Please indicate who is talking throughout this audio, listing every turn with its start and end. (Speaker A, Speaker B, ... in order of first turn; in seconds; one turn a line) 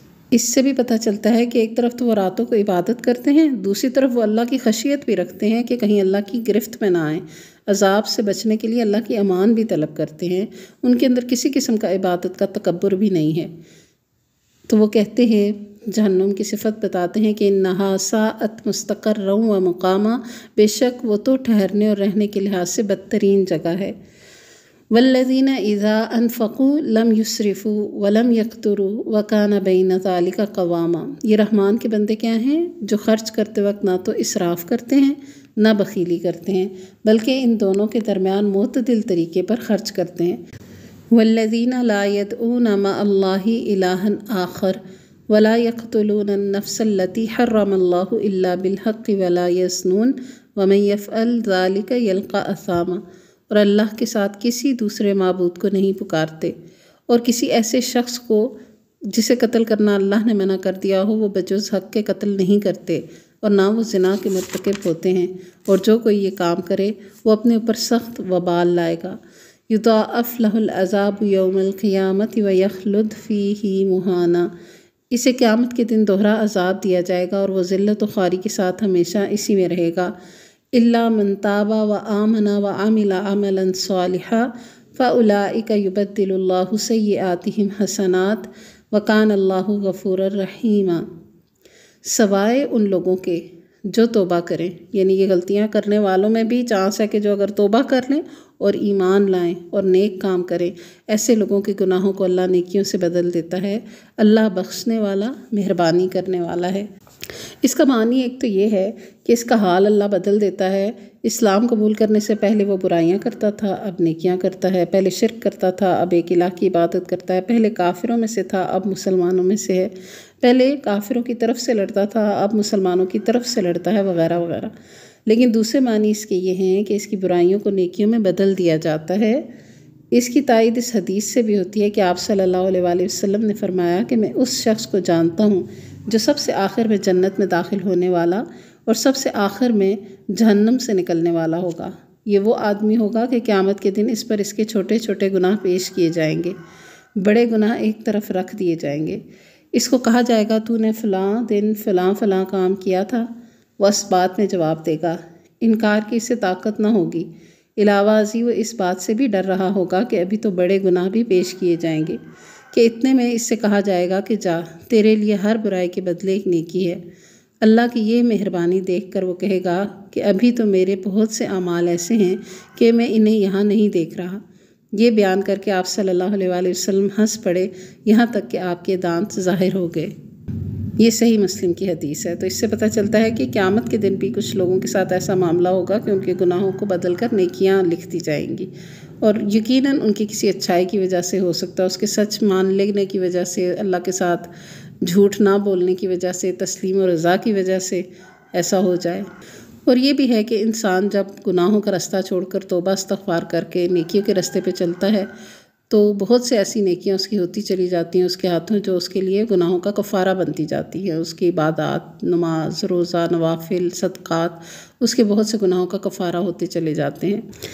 Speaker A: 0.3-13.5
Speaker A: 14.7-23.9
Speaker A: 24.9-40.4
Speaker A: 41.1-56.5
Speaker A: 57.1-58.6
Speaker A: 59.1-69.2
Speaker A: 69.7-74.5
Speaker A: 75.1-80.1
Speaker A: 80.7-91.0
Speaker A: 92.0-106.9
Speaker A: 107.6-124.7
Speaker A: 125.2-129.4
Speaker A: 130.1-146.5
Speaker A: 147.2-149.2
Speaker A: 149.7-162.2
Speaker A: 162.7-167.0
Speaker A: 167.6-180.1
Speaker A: 181.0-188.7
Speaker A: 189.2-194.5
Speaker A: 195.0-199.3
Speaker A: 199.9-205.3
Speaker A: 205.9-217.4